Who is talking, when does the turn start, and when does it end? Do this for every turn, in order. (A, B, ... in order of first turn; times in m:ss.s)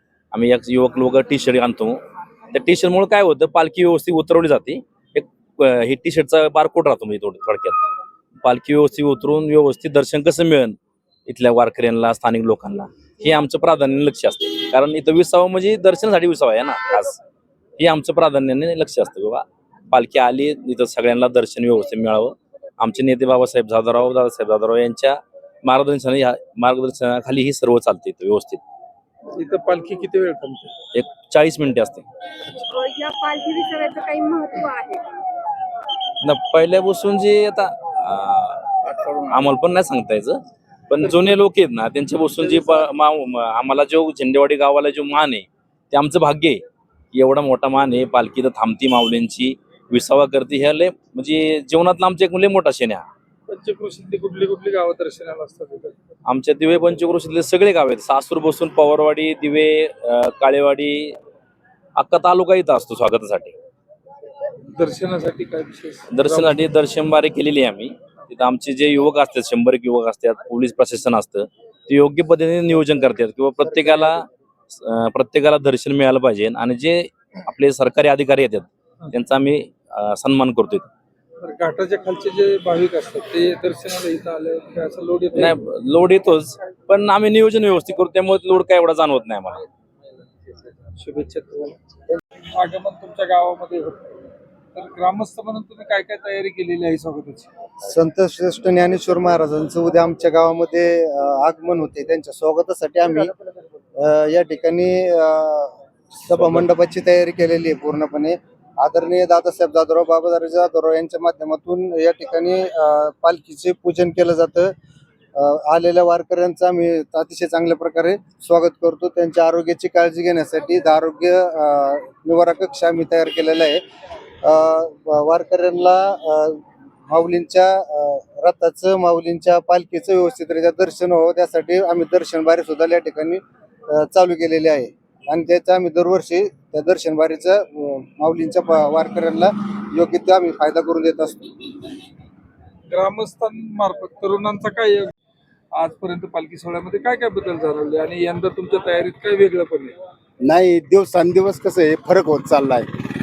0:00.3-0:02.0 A
0:02.5-0:07.8 A
0:08.4-0:17.2 A
0:17.8-0:28.6 A
0:29.3-0:30.7 B
0:30.9-0:32.0 A
0:32.7-0:35.1 C
0:36.2-0:46.6 A
0:47.1-0:53.1 A
0:53.5-0:56.0 B
0:56.3-1:01.2 A
1:02.0-1:03.5 A
1:04.8-1:06.6 B
1:06.1-1:20.9 A
1:21.4-1:25.6 B
1:25.4-1:29.6 A
1:31.0-1:31.8 B
1:32.4-1:34.0 B
1:34.8-1:37.5 B
1:37.8-1:43.3 D
1:44.0-1:54.7 D
1:55.4-2:03.8 D
2:04.4-2:21.5 D
2:22.9-2:25.1 B
2:25.7-2:29.9 B
2:30.4-2:32.9 E